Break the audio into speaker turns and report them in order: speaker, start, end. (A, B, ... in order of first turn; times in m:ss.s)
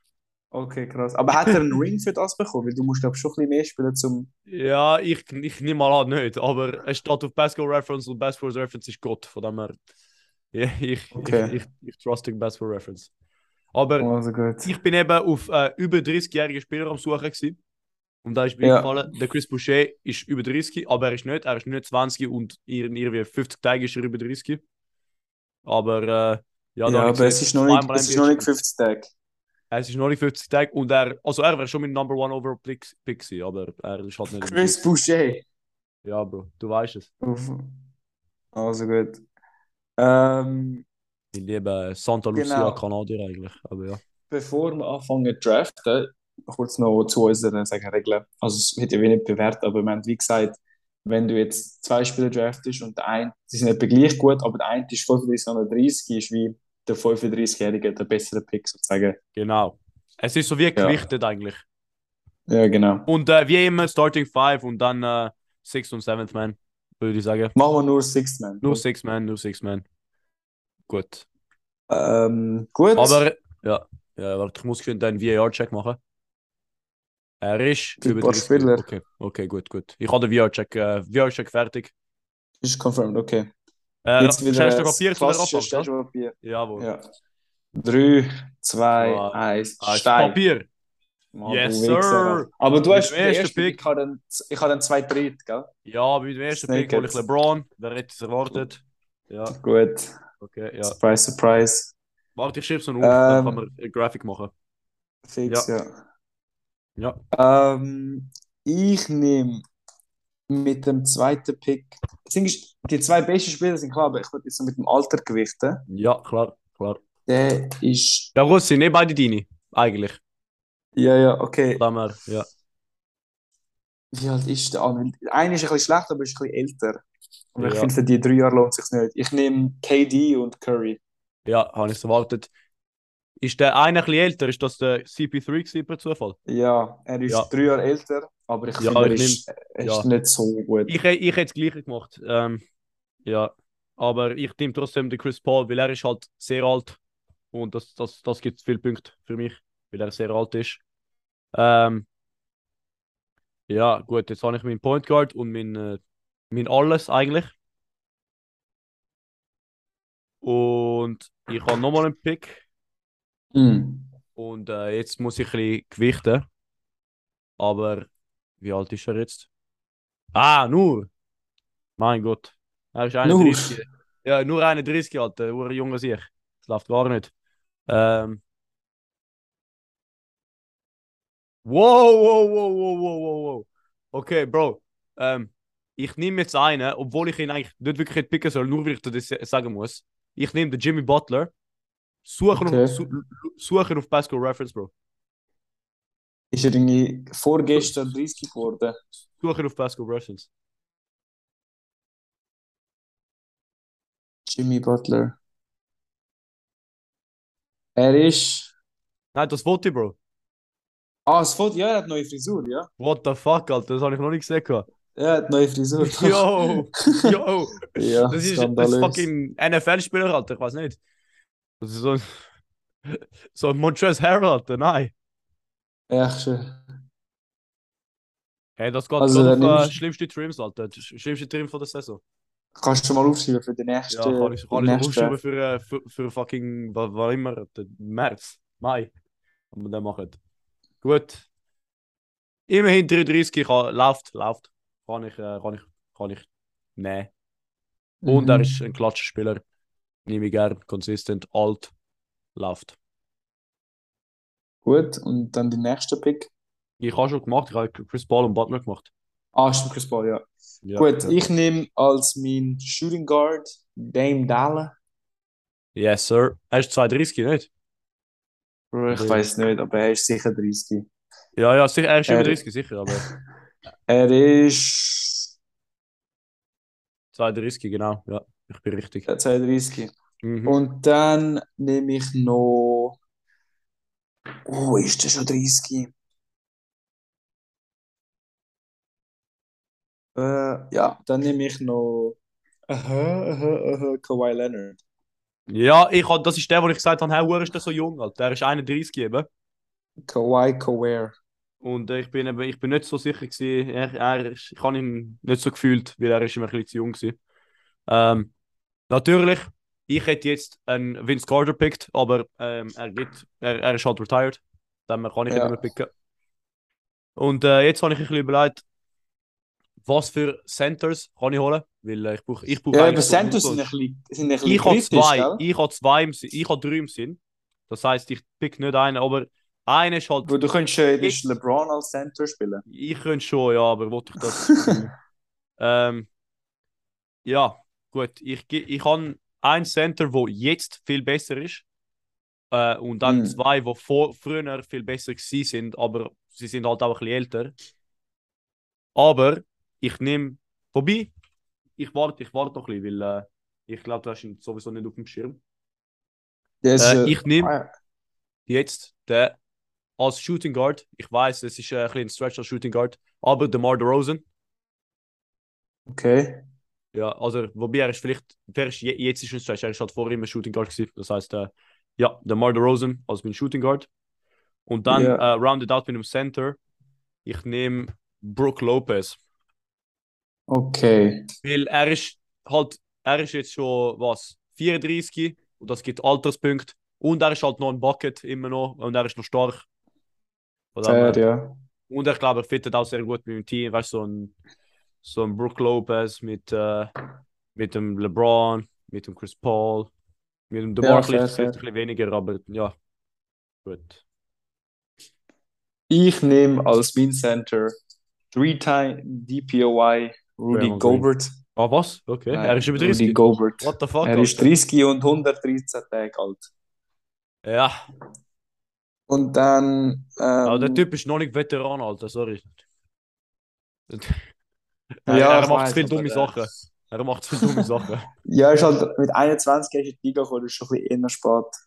0:00.5-0:04.3 A
0:04.5-0:09.8 B
0:10.5-0:13.1 B
0:11.2-0:11.6 A
0:13.7-0:14.1 B
0:14.0-0:14.7 A
0:14.6-0:17.6 B
0:18.2-0:24.6 B
0:18.6-0:18.9 A
0:25.6-0:28.5 B
0:26.9-0:29.1 A
0:29.7-0:34.8 B
0:34.3-0:35.4 A
0:36.0-0:37.1 B
0:37.2-0:37.7 A
0:38.5-0:39.2 A
0:40.0-0:40.8 A
0:41.3-0:44.0 B
0:42.4-0:42.8 A
0:44.3-0:59.2 A
0:59.4-1:01.6 B
1:00.8-1:01.0 A
1:02.5-1:03.1 A
1:03.1-1:07.6 B
1:07.6-1:08.8 A
1:08.6-1:09.8 B
1:10.9-1:11.3 B
1:11.9-1:13.2 A
1:13.0-1:16.0 B
1:17.4-1:21.9 B
1:18.0-1:18.9 A
1:22.6-1:23.5 A
1:24.0-1:25.9 B
1:24.2-1:27.0 A
1:26.4-1:26.9 B
1:27.8-1:30.4 A
1:29.0-1:30.7 B
1:31.3-1:35.7 A
1:31.4-1:33.8 B
1:35.9-1:39.6 B
1:36.5-1:37.2 A
1:39.5-1:40.1 A
1:40.4-1:41.0 B
1:40.9-1:41.9 A
1:42.4-1:44.5 B
1:43.0-1:43.6 A
1:45.3-1:45.9 A
1:47.0-1:47.2 B
1:47.3-1:49.6 A
1:50.5-1:55.8 A
1:55.9-1:57.0 B
1:57.3-1:58.3 A
1:58.4-2:00.2 B
2:01.0-2:01.8 A
2:01.8-2:02.5 B
2:04.1-2:07.0 A
2:07.6-2:11.0 A
2:07.6-2:07.9 B
2:11.4-2:12.5 B
2:13.4-2:16.4 B
2:16.5-2:20.9 A
2:18.8-2:20.1 B
2:20.9-2:22.6 B
2:23.2-2:27.0 B
2:27.5-2:30.8 B
2:31.5-2:32.1 B
2:33.7-2:36.0 B
2:36.5-2:37.5 B
2:40.4-2:42.6 B
2:43.5-2:44.1 A
2:44.4-2:46.5 B
2:47.6-2:48.1 B
2:48.6-2:49.5 B
2:50.3-2:51.1 B
2:52.0-2:57.3 B
2:53.2-2:53.8 A
2:57.9-2:58.4 B
3:01.6-3:11.5 B
3:12.2-3:14.9 B
3:12.6-3:13.0 A
3:16.5-3:19.0 A
3:19.4-3:20.5 B
3:24.5-3:25.4 A
3:28.0-3:28.7 A
3:29.3-3:30.2 B
3:31.3-3:32.9 A
3:33.0-3:34.9 B
3:35.2-3:36.4 A
3:36.0-3:41.0 B
3:38.0-3:39.3 A
3:41.8-3:42.4 B
3:43.1-3:45.1 B
3:46.1-3:46.8 A
3:48.8-3:52.2 B
3:49.2-3:50.0 A
3:52.8-3:55.4 A
3:54.1-3:59.1 B
3:59.7-4:00.4 B
4:01.0-4:01.5 B
4:02.7-4:07.3 B
4:08.2-4:08.7 A
4:08.3-4:09.6 B
4:10.2-4:11.9 B
4:12.6-4:13.0 B
4:14.8-4:16.5 A
4:17.0-4:19.1 B
4:19.5-4:20.4 A
4:20.8-4:21.4 B
4:21.0-4:25.0 A
4:26.0-4:27.7 B
4:28.9-4:31.1 A
4:29.1-4:29.4 B
4:31.6-4:33.3 B
4:32.3-4:32.6 A
4:33.1-4:33.4 A
4:34.1-4:35.4 A
4:37.3-4:39.3 B
4:39.3-4:40.1 A
4:40.4-4:40.8 B
4:40.7-4:43.2 A
4:44.7-4:46.1 A
4:50.4-4:52.4 A
4:52.9-4:55.0 A
4:55.7-4:59.5 B
5:00.2-5:01.4 A
5:01.8-5:07.4 B
5:08.1-5:08.5 B
5:09.1-5:16.1 B
5:15.5-5:15.8 A
5:17.4-5:18.8 B
5:20.0-5:23.9 B
5:22.9-5:25.6 A
5:24.6-5:30.6 B
5:30.4-5:32.8 A
5:32.9-5:35.1 B
5:34.6-5:35.0 A
5:35.8-5:36.3 B
5:37.4-5:41.8 B
5:42.7-5:47.7 B
5:43.2-5:43.6 A
5:49.2-5:51.3 B
5:52.0-5:55.6 B
5:56.8-5:57.9 A
5:57.0-5:57.7 B
5:58.7-5:59.6 B
6:00.2-6:04.4 B
6:06.1-6:06.6 A
6:07.1-6:14.1 B
6:14.9-6:16.8 B
6:15.1-6:15.4 A
6:17.4-6:19.4 B
6:20.7-6:21.4 A
6:21.6-6:29.8 B
6:31.0-6:31.4 B
6:31.0-6:31.8 A
6:32.1-6:34.6 B
6:35.2-6:37.1 B
6:37.8-6:40.1 B
6:40.7-6:43.0 B
6:41.0-6:41.8 A
6:43.8-6:44.2 B
6:46.1-6:47.9 A
6:48.5-6:51.6 A
6:50.7-6:54.7 B
6:52.5-6:56.7 A
6:57.6-6:58.0 B
6:59.3-7:01.0 A
7:00.6-7:02.8 B
7:04.1-7:04.4 B
7:05.3-7:08.3 B
7:05.3-7:06.6 A
7:08.4-7:11.7 A